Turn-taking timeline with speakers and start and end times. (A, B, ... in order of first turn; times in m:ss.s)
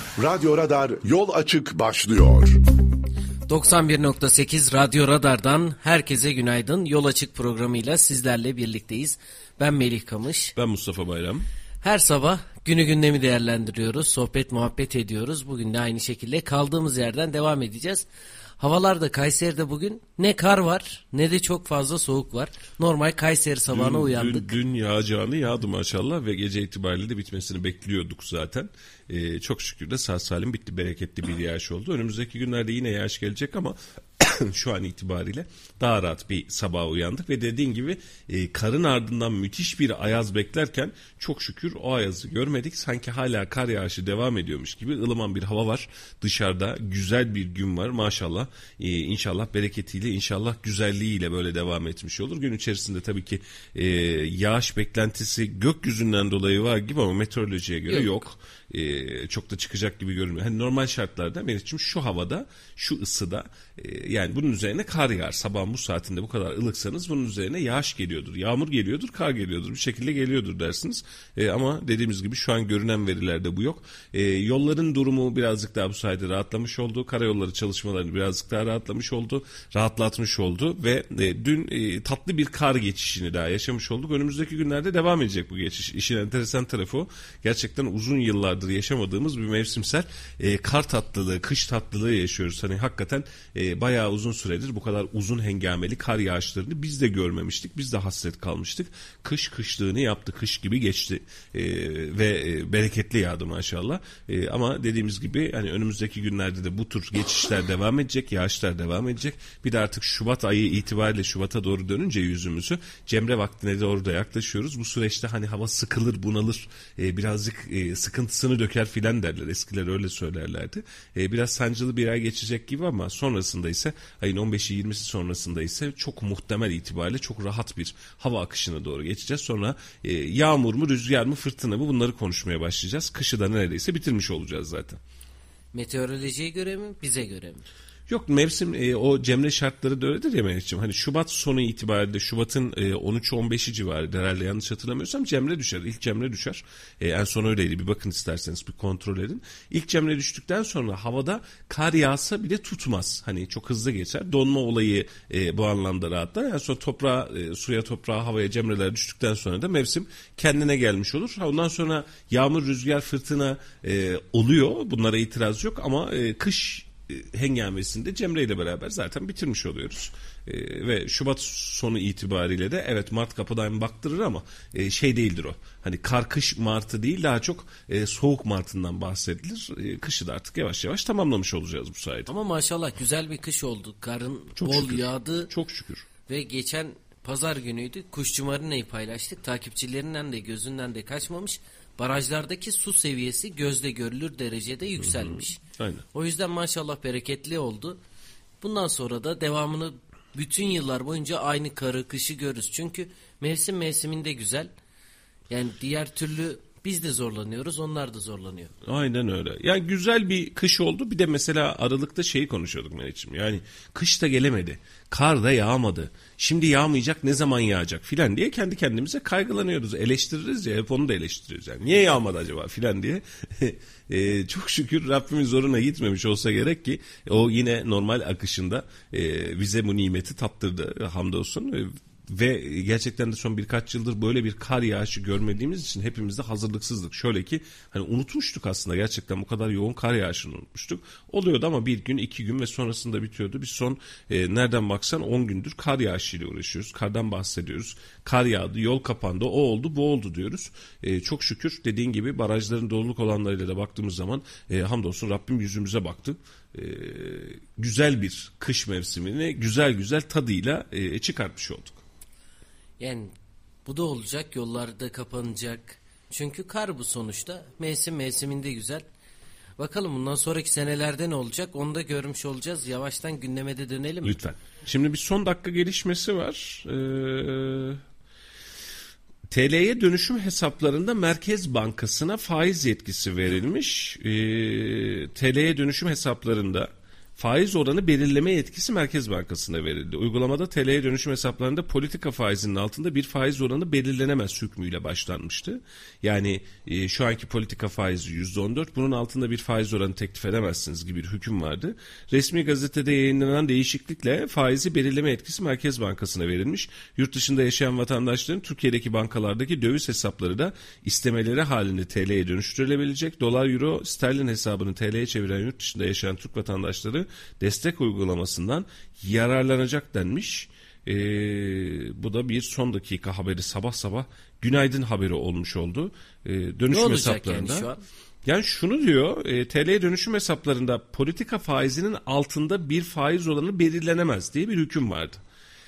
0:00.2-0:02.6 A
0:03.5-0:10.5 B
0:10.6-0:11.5 C
0:11.8-0:18.0 B
0:18.6-0:24.5 B
0:23.7-2:15.0 C
2:15.7-2:17.6 B
2:18.1-3:02.3 C
3:02.3-3:05.5 B
3:04.6-3:06.1 C
3:06.3-3:15.6 B
3:15.0-3:16.0 C
3:16.1-3:18.0 B
3:18.6-3:24.7 B
3:25.5-3:28.7 B
3:28.8-4:22.0 C
4:23.0-4:23.3 B
4:23.8-4:29.0 B
4:29.8-4:34.4 B
4:34.2-4:38.0 C
4:39.5-5:27.9 C
5:26.9-5:28.0 B
5:28.4-5:35.4 C